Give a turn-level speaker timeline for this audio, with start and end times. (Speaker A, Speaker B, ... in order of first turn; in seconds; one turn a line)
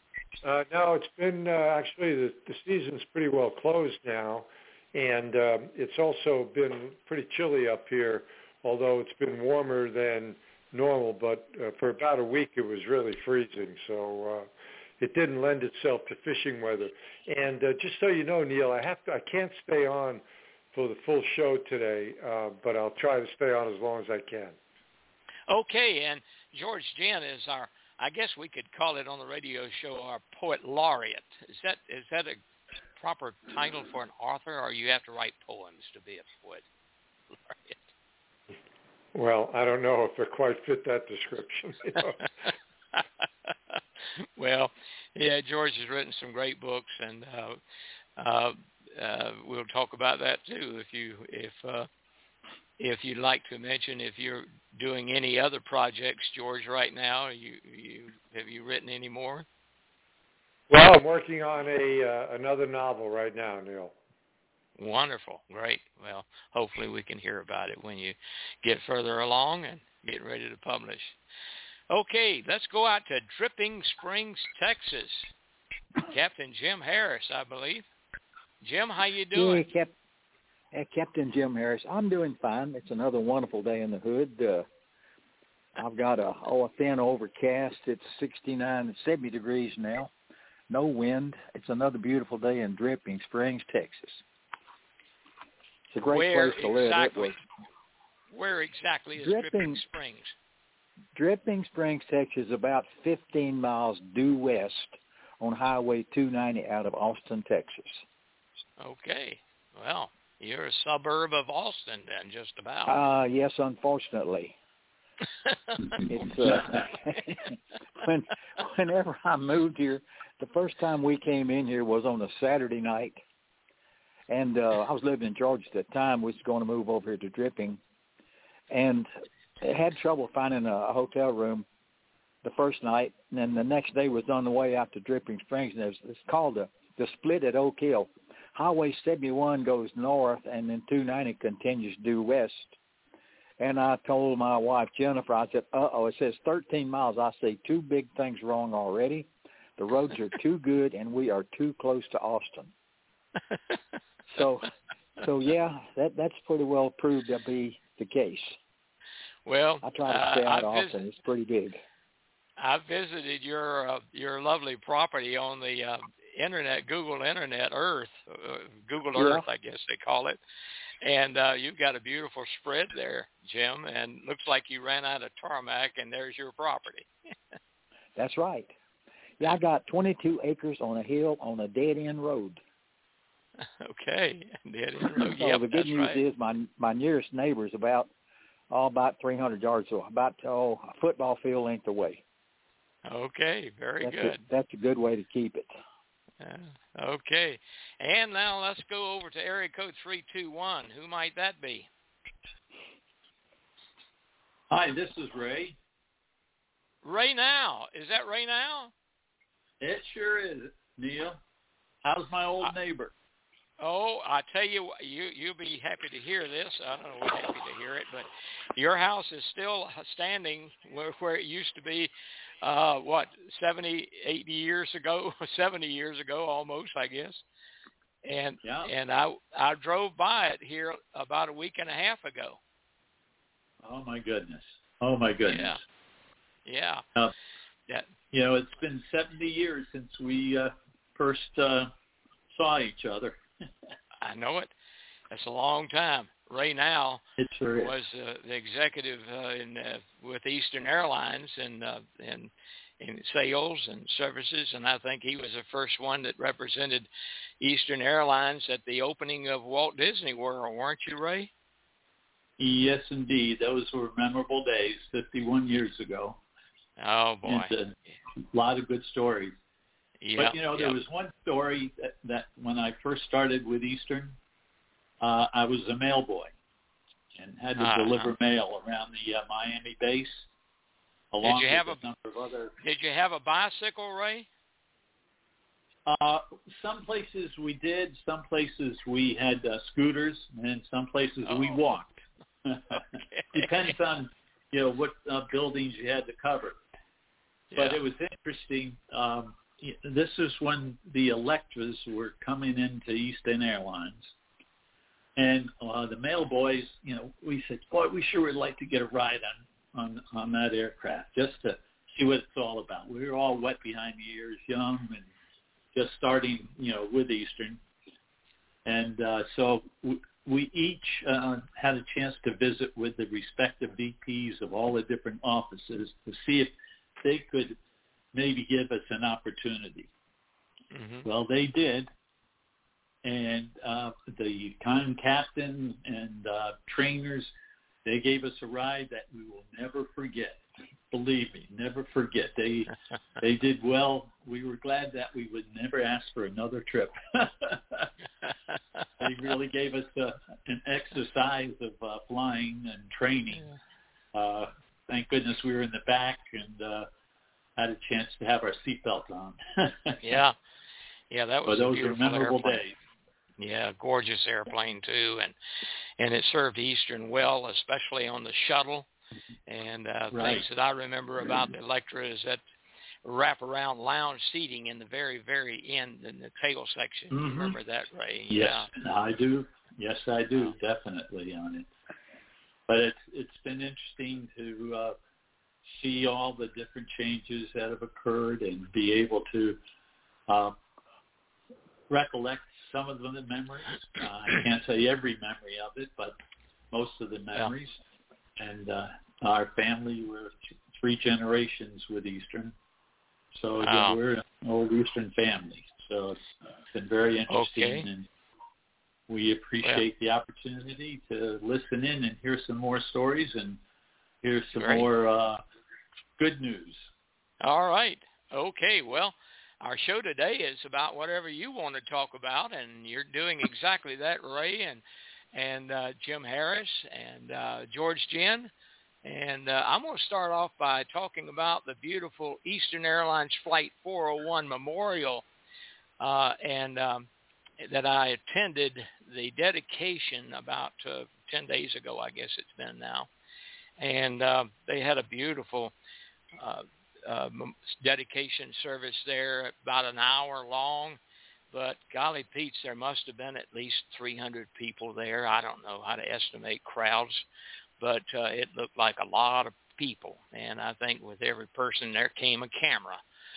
Speaker A: 0.4-24.6
Speaker B: 25.5-32.4
Speaker B: 33.0-36.6
Speaker B: 37.5-37.8
Speaker A: 39.1-42.3
Speaker B: 44.4-47.6
Speaker B: 48.2-51.9
Speaker B: 52.8-59.5
Speaker A: 60.7-63.9
Speaker B: 64.8-71.2
Speaker B: 71.9-75.3
Speaker B: 76.1-77.8
Speaker B: 78.6-79.6
Speaker C: 79.3-79.9
Speaker C: 80.7-84.7
Speaker C: 85.8-90.1
Speaker C: 90.7-94.2
Speaker C: 95.9-97.3
Speaker B: 96.0-97.4
Speaker B: 98.3-100.3
Speaker C: 99.1-99.8
Speaker C: 101.1-108.0
Speaker B: 108.8-113.0
Speaker C: 112.9-114.5
Speaker B: 115.5-115.8
Speaker C: 116.1-117.3
Speaker C: 118.0-123.2
Speaker C: 124.3-127.8
Speaker C: 128.7-129.1
Speaker C: 129.6-131.7
Speaker C: 132.4-142.8
Speaker C: 143.6-152.7
Speaker C: 154.3-158.6
Speaker B: 159.4-161.0
Speaker C: 159.8-161.8
Speaker B: 162.6-170.4
Speaker C: 169.1-169.4
Speaker B: 171.0-177.1
Speaker C: 178.2-178.7
Speaker C: 179.4-182.6
Speaker B: 183.6-186.2
Speaker C: 185.2-188.1
Speaker C: 188.7-192.2
Speaker B: 193.1-194.4
Speaker C: 194.0-195.7
Speaker B: 196.4-201.9
Speaker D: 204.7-205.8
Speaker B: 207.0-208.9
Speaker D: 209.8-211.4
Speaker D: 212.0-213.1
Speaker B: 213.8-222.1
Speaker B: 222.6-227.4
Speaker B: 228.2-232.6
Speaker D: 228.6-228.9
Speaker D: 233.8-235.8
Speaker B: 235.5-235.8
Speaker B: 236.7-237.0
Speaker D: 238.3-241.9
Speaker D: 242.5-243.4
Speaker B: 244.2-244.7
Speaker B: 245.3-247.2
Speaker D: 247.4-247.9
Speaker B: 247.8-252.5
Speaker B: 253.0-257.1
Speaker B: 257.6-261.5
Speaker D: 262.6-266.4
Speaker B: 267.0-267.7
Speaker D: 267.4-269.5
Speaker B: 270.2-270.9
Speaker D: 270.4-274.4
Speaker D: 275.2-276.5
Speaker D: 277.4-280.5
Speaker B: 277.8-278.3
Speaker D: 281.3-282.7
Speaker B: 281.4-282.0
Speaker B: 282.8-284.5
Speaker D: 286.1-292.1
Speaker B: 291.4-292.2
Speaker D: 292.6-293.0
Speaker B: 293.3-293.9
Speaker D: 293.5-296.8
Speaker B: 297.7-298.0
Speaker D: 297.7-304.3
Speaker D: 305.4-315.3
Speaker D: 315.9-317.8
Speaker D: 318.8-327.8
Speaker D: 328.3-330.1
Speaker B: 330.9-331.3
Speaker D: 331.2-332.1
Speaker D: 333.2-337.5
Speaker D: 338.0-348.1
Speaker D: 349.2-353.6
Speaker D: 354.3-357.1
Speaker D: 357.8-360.2
Speaker B: 360.2-360.6
Speaker B: 361.3-362.8
Speaker D: 361.7-362.9
Speaker B: 363.6-365.5
Speaker B: 366.2-369.1
Speaker B: 369.7-372.6
Speaker D: 370.3-370.6
Speaker B: 373.2-378.9
Speaker D: 377.3-377.8
Speaker D: 378.5-381.9
Speaker D: 382.9-385.2
Speaker D: 385.9-389.8
Speaker D: 390.5-390.8
Speaker D: 392.1-396.3
Speaker D: 396.9-398.0
Speaker D: 398.6-402.7
Speaker D: 403.5-406.4
Speaker B: 403.8-404.2
Speaker D: 406.9-408.3
Speaker B: 407.5-408.1
Speaker D: 409.3-413.8
Speaker D: 414.4-415.6
Speaker B: 414.7-415.1
Speaker D: 416.4-417.1
Speaker B: 417.6-425.0
Speaker B: 425.5-428.7
Speaker B: 429.2-435.4
Speaker B: 436.2-437.3
Speaker B: 437.8-443.3
Speaker B: 444.0-445.9
Speaker B: 446.6-451.2
Speaker B: 451.7-457.4
Speaker B: 458.0-463.2